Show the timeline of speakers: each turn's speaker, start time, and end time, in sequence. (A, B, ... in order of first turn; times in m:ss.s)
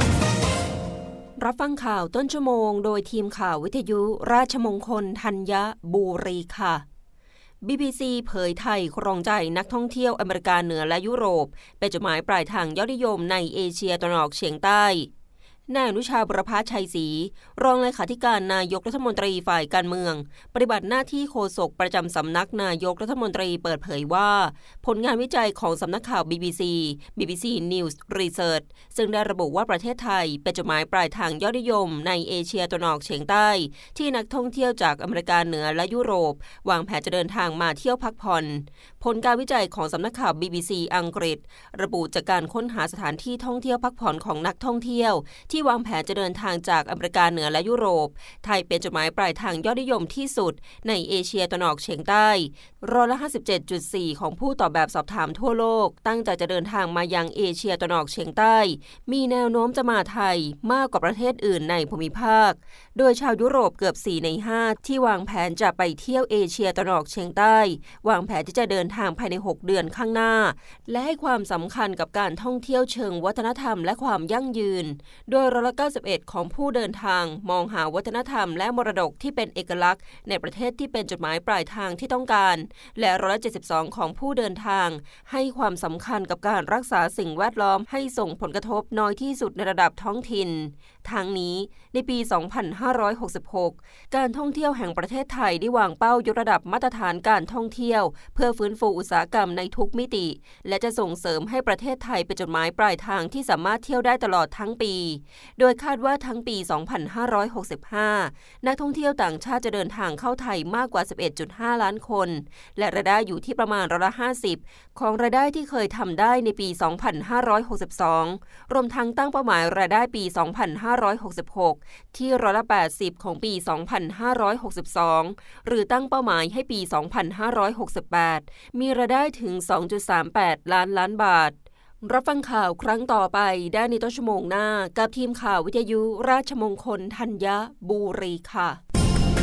0:01.4-0:06.8 A
0:07.6-0:15.1 A
0:15.7-2:18.8 A